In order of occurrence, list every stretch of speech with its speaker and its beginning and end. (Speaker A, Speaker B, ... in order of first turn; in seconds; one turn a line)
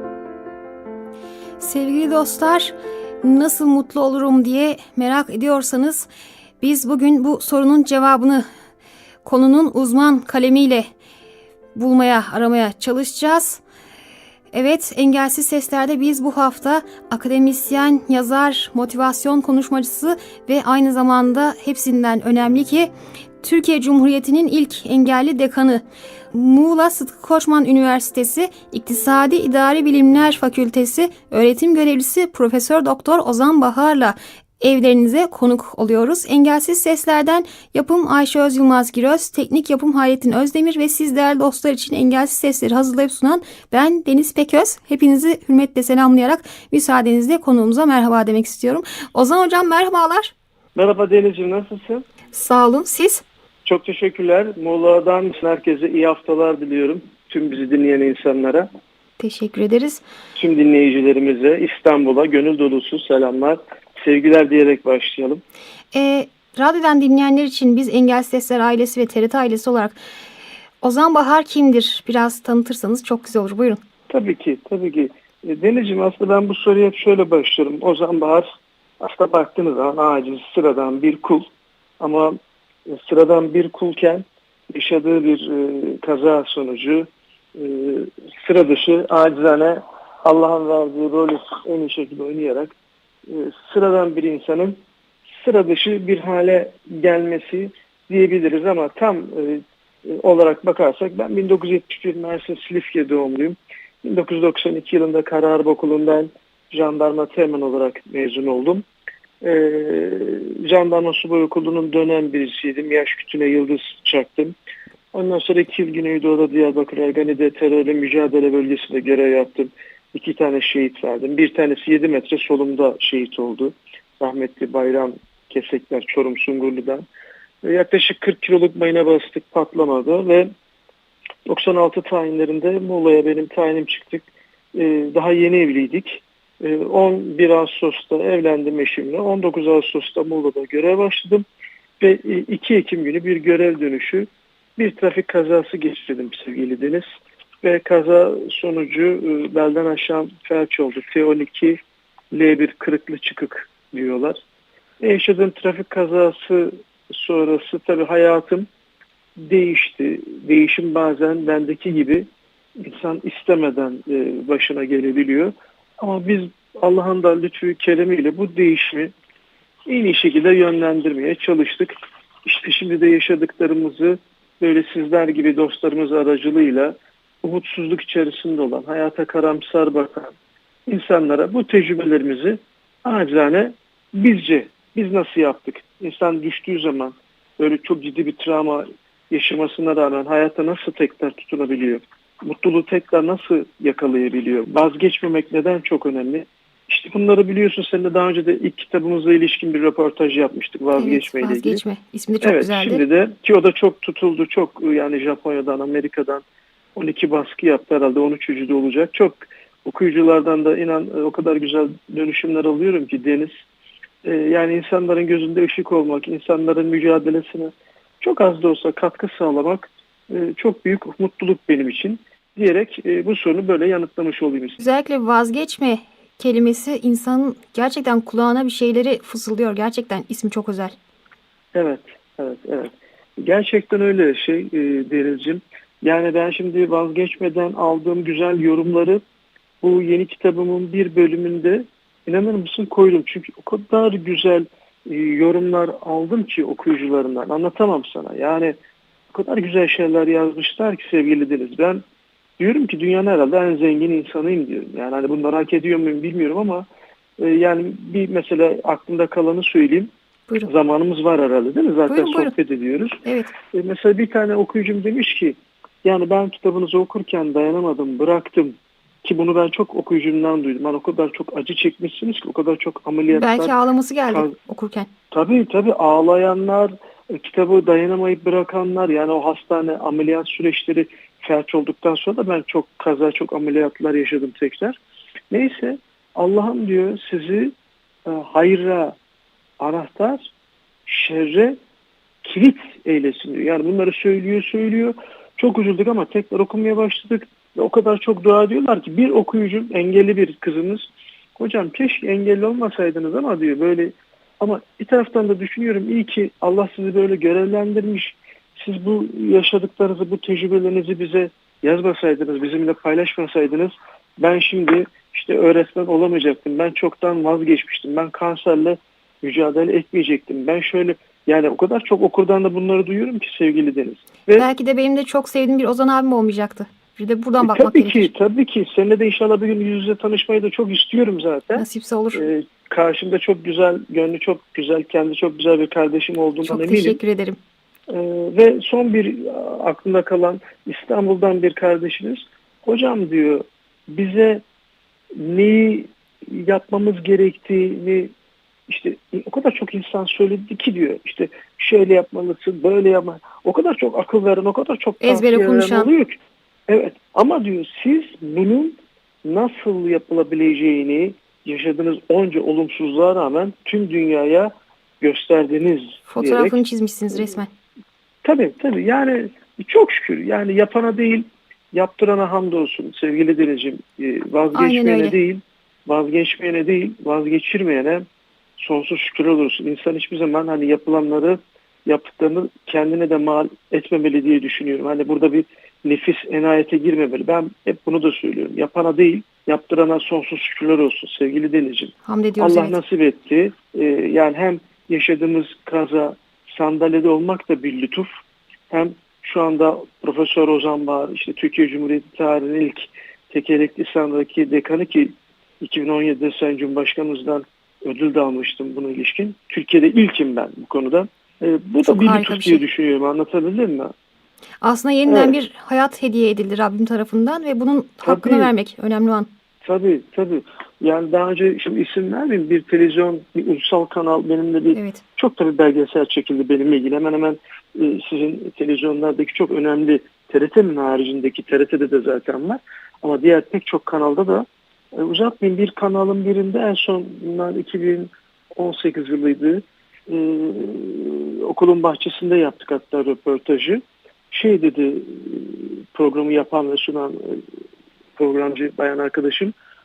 Speaker A: 1.6-6.1
Speaker A: 6.6-8.5
Speaker A: 9.2-10.9
Speaker A: 11.8-13.6
Speaker A: 14.5-50.3
Speaker B: 50.8-52.1
Speaker A: 52.3-53.2
Speaker B: 53.6-58.7
Speaker A: 59.2-60.0
Speaker B: 60.4-65.4
Speaker A: 65.9-70.0
Speaker A: 70.8-73.8
Speaker B: 74.1-78.5
Speaker B: 79.0-81.5
Speaker B: 82.0-82.4
Speaker B: 82.9-92.7
Speaker B: 93.3-94.8
Speaker B: 95.3-108.8
Speaker B: 109.4-114.6
Speaker B: 115.1-127.0
Speaker B: 127.6-130.5
Speaker B: 131.5-141.5
Speaker B: 142.0-147.1
Speaker B: 147.6-151.8
Speaker B: 152.3-154.4
Speaker B: 155.0-158.7
Speaker B: 159.4-162.3
Speaker B: 162.8-169.1
Speaker B: 169.9-171.9
Speaker B: 172.5-180.3
Speaker B: 180.9-201.8
Speaker A: 200.9-203.1
Speaker B: 202.4-206.4
Speaker B: 207.0-213.5
Speaker B: 214.2-224.8
Speaker A: 224.8-231.0
Speaker B: 231.7-239.2
Speaker B: 239.8-248.8
Speaker B: 249.3-252.0
Speaker B: 252.6-256.9
Speaker B: 257.4-260.1
Speaker B: 260.7-263.2
Speaker A: 262.1-262.5
Speaker A: 263.2-263.5
Speaker B: 263.7-273.8
Speaker A: 273.3-275.1
Speaker B: 275.3-285.0
Speaker B: 285.5-287.7
Speaker B: 288.3-289.2
Speaker B: 289.8-290.5
Speaker B: 291.1-291.8
Speaker B: 292.4-324.7
Speaker A: 324.5-328.3
Speaker B: 327.6-337.2
Speaker A: 331.8-332.5
Speaker A: 336.6-337.6
Speaker B: 338.1-344.6
Speaker B: 345.4-348.3
Speaker B: 348.9-356.4
Speaker A: 355.2-356.1
Speaker B: 356.9-366.8
Speaker A: 366.3-367.7
Speaker B: 368.4-378.2
Speaker A: 374.7-375.4
Speaker B: 378.8-398.3
Speaker A: 392.2-393.0
Speaker B: 398.9-414.1
Speaker A: 412.0-412.8
Speaker A: 414.8-419.5
Speaker B: 415.3-415.6
Speaker B: 418.2-418.7
Speaker B: 419.8-447.6
Speaker A: 424.9-425.2
Speaker B: 448.4-449.7